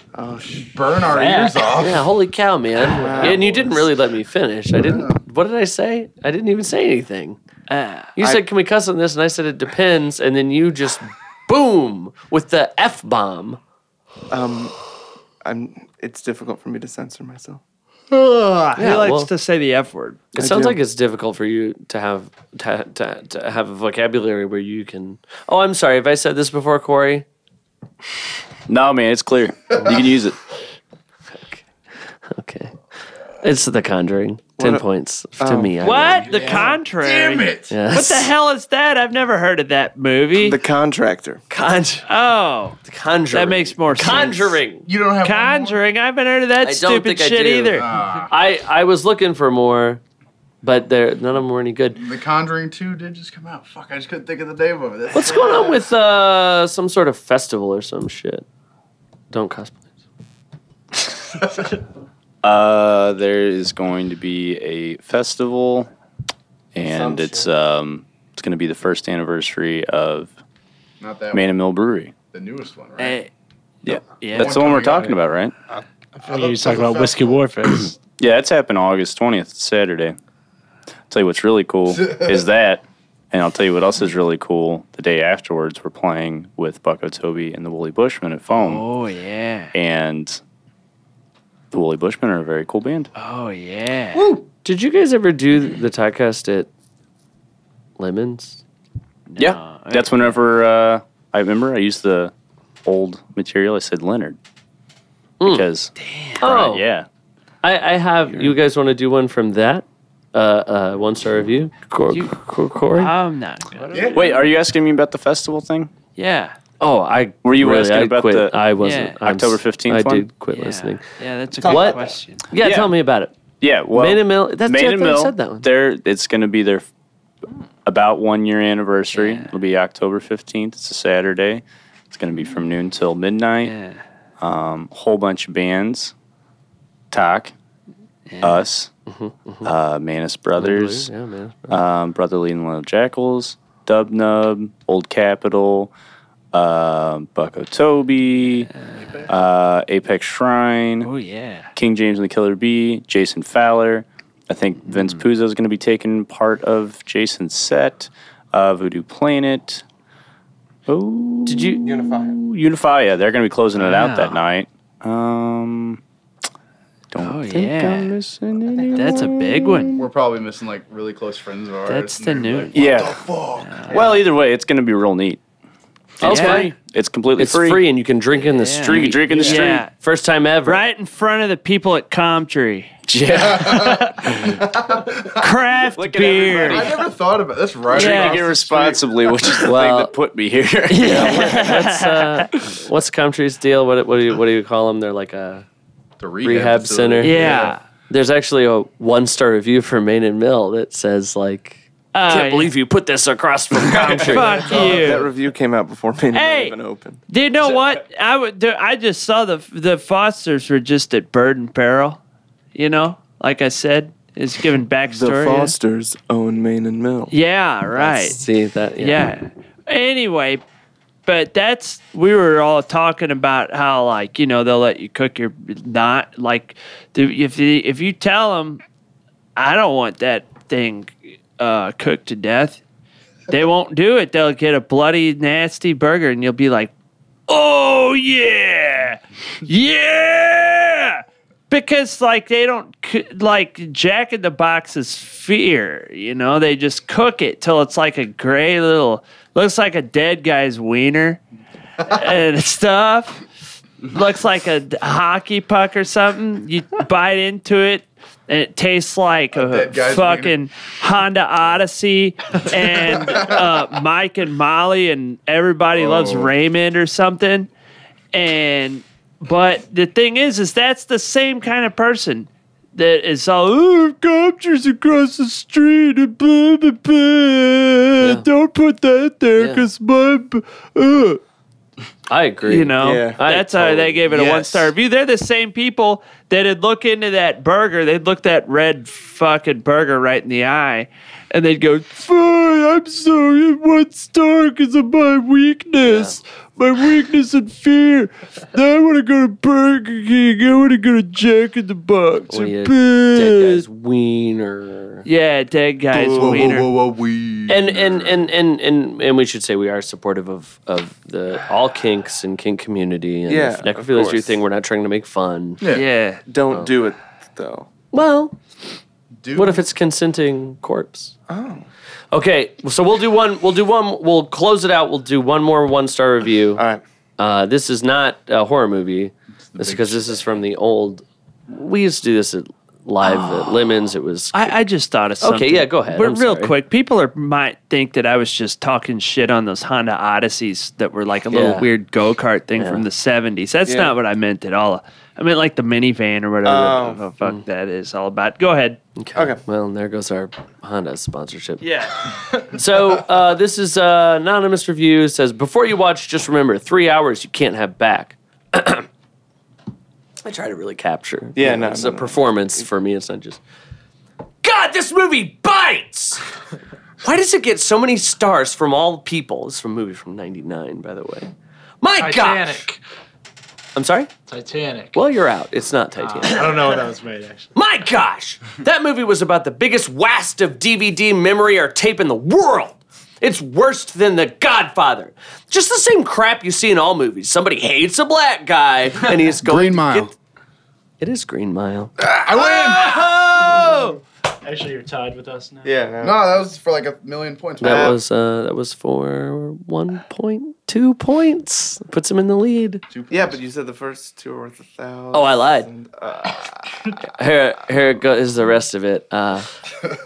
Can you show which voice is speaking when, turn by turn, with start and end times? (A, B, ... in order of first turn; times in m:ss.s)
0:00.2-0:01.0 A
0:00.7-0:02.1 B
0:01.1-0:07.4 C
0:02.8-0:03.9 A
0:03.2-0:03.6 B
0:04.7-0:05.2 B
0:07.7-0:08.1 D
0:08.2-0:13.6 C
0:14.3-0:14.8 A
0:15.4-0:17.6 A
0:18.3-0:20.2 D
0:18.8-0:19.3 C
0:20.3-0:27.3 C
0:20.4-0:20.8 A
0:28.7-0:30.4 E
0:31.3-0:31.7 C
0:32.2-0:32.8 C
0:33.4-0:36.3 C
0:34.6-0:34.8 A
0:35.4-0:36.6 A
0:35.8-0:40.6 D
0:36.2-0:37.7 B
0:37.7-0:38.3 C
0:40.4-0:41.4 A
0:41.5-0:42.1 C
0:42.1-0:42.8 D
0:42.8-0:44.9 C
0:43.3-0:44.6 D
0:44.8-0:45.8 B
0:45.2-0:47.9 D
0:46.6-0:50.0 C
0:47.7-0:48.3 B
0:50.6-0:52.0 C
0:52.0-0:55.9 B
0:55.1-0:58.5 C
0:59.3-0:59.8 C
1:01.4-1:01.8 B
1:02.4-1:05.9 E
1:06.7-1:10.3 E
1:06.8-1:07.5 A
1:11.0-1:11.6 B
1:11.3-1:12.2 E
1:12.2-1:13.2 B
1:13.0-1:13.3 D
1:13.8-1:15.5 E
1:14.1-1:14.7 D
1:14.3-1:15.2 B
1:16.2-1:18.0 F
1:16.2-1:17.4 B
1:18.0-1:20.2 E
1:21.1-1:28.8 E
1:21.9-1:22.4 B
1:28.5-1:29.7 D
1:29.7-1:30.4 E
1:31.7-1:33.1 E
1:33.2-1:34.4 D
1:34.6-1:36.7 C
1:38.0-1:38.6 C
1:39.3-1:40.4 D
1:39.4-1:42.3 E
1:42.8-1:44.4 E
1:45.4-1:45.7 C
1:45.4-1:47.1 E
1:46.0-1:46.4 D
1:46.4-1:46.9 C
1:47.6-1:53.1 C
1:48.3-1:48.6 A
1:52.9-1:54.4 D
1:53.9-1:54.2 B
1:54.1-1:55.9 E
1:56.2-1:56.6 D
1:56.8-2:01.0 C
1:57.4-1:58.6 E
1:58.8-1:59.2 D
1:59.2-2:00.3 E
2:00.5-2:02.5 D
2:01.6-2:02.2 A
2:01.6-2:03.3 C
2:02.6-2:03.0 E
2:03.6-2:06.9 E
2:03.9-2:05.7 C
2:07.8-2:13.7 E
2:09.2-2:09.5 D
2:13.6-2:14.0 D
2:14.4-2:16.1 E
2:17.1-2:17.5 E
2:18.3-2:18.7 D
2:18.4-2:18.9 E
2:19.1-2:19.7 C
2:19.6-2:21.1 E
2:20.6-2:21.8 C
2:21.7-2:25.9 E
2:26.5-2:28.7 E
2:28.6-2:29.2 D
2:29.3-2:31.1 E
2:31.0-2:31.7 D
2:31.8-2:39.8 E
2:34.9-2:35.2 D
2:40.9-2:46.0 E
2:41.5-2:41.8 C
2:41.8-2:42.4 A
2:43.8-2:44.4 D
2:47.1-2:50.0 E
2:47.2-2:48.2 D
2:48.7-2:49.2 A
2:48.9-2:50.0 D
2:50.0-2:54.0 B
2:51.9-2:52.8 D
2:52.7-2:53.2 E
2:53.6-2:54.0 D
2:53.9-2:55.4 E
2:53.9-2:54.2 A
2:56.2-2:57.9 E
2:56.2-2:56.7 D
2:56.2-2:56.7 C
2:57.4-3:00.8 C
2:58.4-2:59.9 D
2:58.9-2:59.9 E
2:59.3-2:59.6 B
3:00.6-3:02.9 D
3:03.1-3:04.1 E
3:03.3-3:05.5 B
3:03.5-3:04.3 D
3:05.4-3:07.0 D
3:06.0-3:07.1 E
3:06.6-3:09.1 B
3:07.9-3:11.6 E
3:07.9-3:08.4 D
3:09.6-3:10.1 C
3:10.9-3:12.5 D
3:11.0-3:15.7 C
3:16.2-3:17.7 B
3:16.4-3:24.9 C
3:17.2-3:17.8 D
3:22.1-3:22.7 D
3:23.8-3:24.5 B
3:24.2-3:25.3 D
3:24.7-3:27.2 A
3:26.3-3:26.8 D
3:27.3-3:32.2 D
3:32.8-3:35.7 D
3:35.1-3:37.3 A
3:37.3-3:38.4 D
3:38.0-3:39.3 C
3:39.0-3:40.6 D
3:41.3-3:48.8 D
3:49.6-3:52.8 D
3:53.5-3:56.9 D
3:57.5-4:11.4 D
4:12.0-4:13.4 D
4:14.0-4:27.7 D
4:19.5-4:20.6 B
4:26.0-4:26.5 B
4:28.3-4:41.4 D
4:38.2-4:38.4 C
4:39.6-4:39.9 C
4:42.3-4:44.2 C
4:42.7-5:03.8 D
4:43.0-4:43.4 A
4:44.3-4:44.9 B
4:56.0-4:56.4 C
5:02.5-5:05.3 C
5:05.3-5:06.9 D
5:06.1-5:06.8 A
5:06.3-5:08.5 B
5:07.7-5:15.8 C
5:13.5-5:14.6 A
5:15.8-5:16.1 B
5:15.9-5:16.4 D
5:16.5-5:17.9 A
5:18.1-5:18.6 C
5:19.4-5:19.9 B
5:19.6-5:21.3 C
5:21.5-5:21.9 A
5:22.3-5:26.8 C
5:26.8-5:27.0 A
5:27.4-5:34.8 C
5:29.7-5:30.4 B
5:33.2-5:34.0 D
5:34.5-5:49.0 D
5:35.4-5:36.8 C
5:41.5-5:41.9 C
5:42.8-5:43.0 C
5:43.8-5:44.2 A
5:46.6-5:47.2 A
5:49.2-5:51.9 C
5:51.8-5:52.4 D
5:52.5-5:59.1 C
6:00.4-6:03.6 C
6:01.6-6:02.9 A
6:04.6-6:06.4 C
6:07.2-6:11.5 C
6:12.0-6:12.8 C
6:12.2-6:13.0 F
6:14.0-6:14.3 C
6:14.5-6:15.2 F
6:15.1-6:16.8 C
6:16.2-6:17.7 F
6:17.7-6:30.3 C
6:29.5-6:30.3 B
6:31.2-6:32.2 C
6:32.4-6:33.4 B
6:32.4-6:34.2 D
6:34.6-6:36.0 F
6:35.8-6:36.5 A
6:36.2-6:38.2 B
6:37.8-6:43.0 C
6:37.8-6:38.2 A
6:43.1-6:43.6 B
6:43.3-6:47.1 A
6:45.3-6:45.9 C
6:47.2-6:49.7 C